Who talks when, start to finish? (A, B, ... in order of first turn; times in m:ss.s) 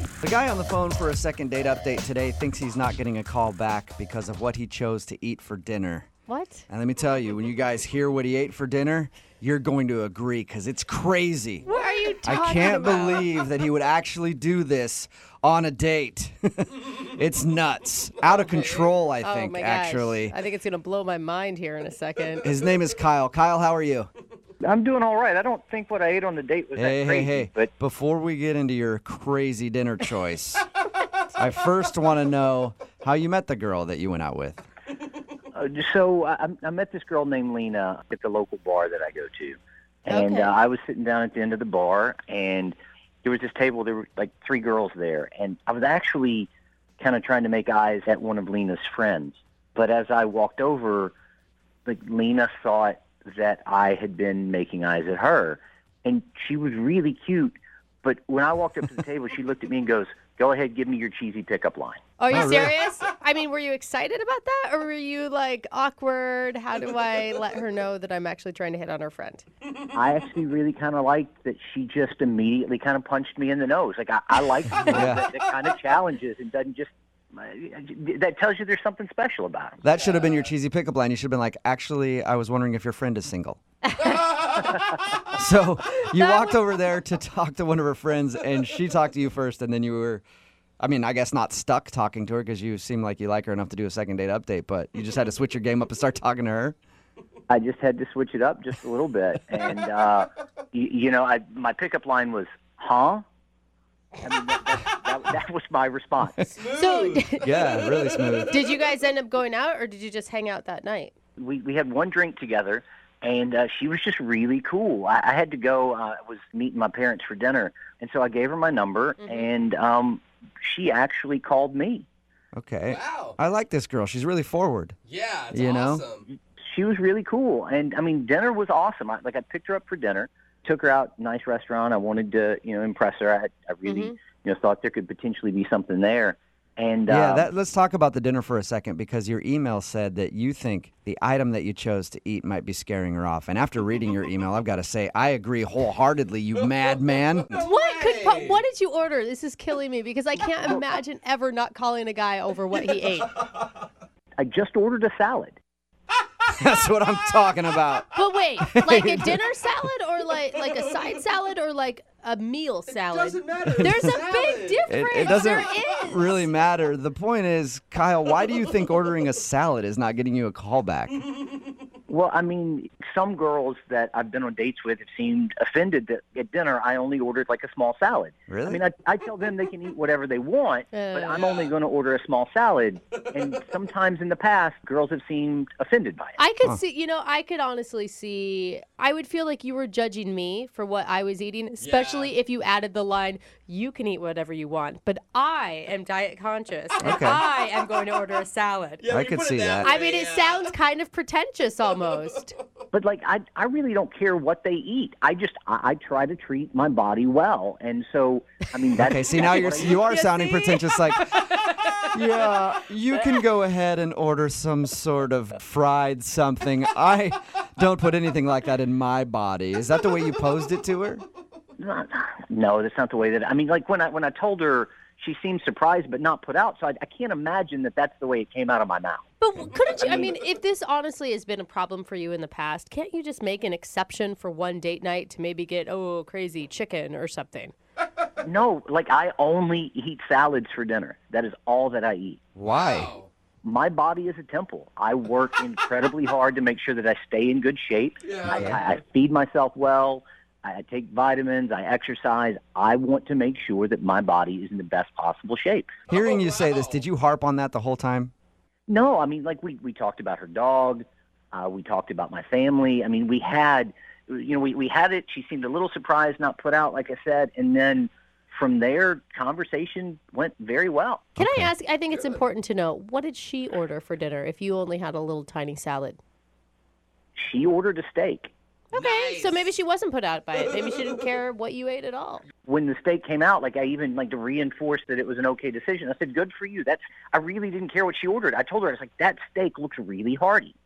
0:00.2-0:06.1 A
0:06.3-0:06.7 B
0:06.7-0:11.6 A
0:11.7-0:13.3 B
0:12.2-0:20.4 A
0:18.4-0:18.8 C
0:19.2-0:22.5 B
0:22.4-0:24.1 A
0:24.6-0:27.7 D
0:26.8-0:30.7 A
0:31.4-0:34.6 A
0:35.5-0:51.1 D
0:40.1-0:40.5 B
0:51.9-1:02.0 D
1:02.2-1:09.5 B
1:02.3-1:02.8 A
1:09.9-1:19.8 D
1:14.8-1:15.2 A
1:19.8-1:23.6 A
1:24.0-1:24.5 C
1:25.3-1:30.2 A
1:30.8-1:36.8 A
1:37.5-1:43.2 D
1:44.2-1:46.5 D
1:46.6-1:47.9 C
1:46.7-1:47.6 B
1:47.4-1:48.6 A
1:48.5-1:51.1 B
1:51.4-2:02.0 D
1:59.2-1:59.5 B
2:02.5-2:05.0 A
2:02.9-2:03.4 C
2:05.1-2:06.2 C
2:05.5-2:06.1 A
2:06.3-2:17.5 D
2:13.9-2:14.2 B
2:17.1-2:27.6 A
2:27.4-2:28.6 C
2:27.6-2:33.3 B
2:30.6-2:31.0 D
2:34.4-2:35.6 D
2:36.5-2:38.1 A
2:38.2-2:46.5 B
2:38.6-2:39.4 A
2:42.9-2:46.1 C
2:43.6-2:44.2 A
2:44.9-2:51.2 A
2:52.1-3:06.4 D
2:58.5-2:58.8 A
3:00.9-3:01.4 B
3:01.3-3:01.7 C
3:06.4-3:19.1 B
3:11.8-3:12.3 C
3:17.0-3:17.4 A
3:19.0-3:20.7 C
3:19.1-3:19.9 A
3:19.8-3:22.5 B
3:22.2-3:22.5 C
3:22.9-3:30.2 D
3:29.0-3:31.4 A
3:29.6-3:30.0 C
3:30.1-3:32.1 B
3:32.1-3:41.2 A
3:41.8-3:49.2 D
3:49.4-3:57.7 B
3:50.0-3:50.3 D
3:58.4-4:02.4 D
4:02.6-4:03.1 A
4:02.7-4:03.3 C
4:03.6-4:16.0 D
4:08.2-4:08.9 C
4:08.5-4:08.8 A
4:16.1-4:17.0 C
4:16.1-4:18.3 A
4:18.9-4:31.4 D
4:31.4-4:31.7 A
4:31.4-4:36.2 B
4:37.4-4:38.5 D
4:38.9-4:39.8 C
4:38.9-4:42.5 B
4:40.5-4:41.0 C
4:42.7-4:50.8 D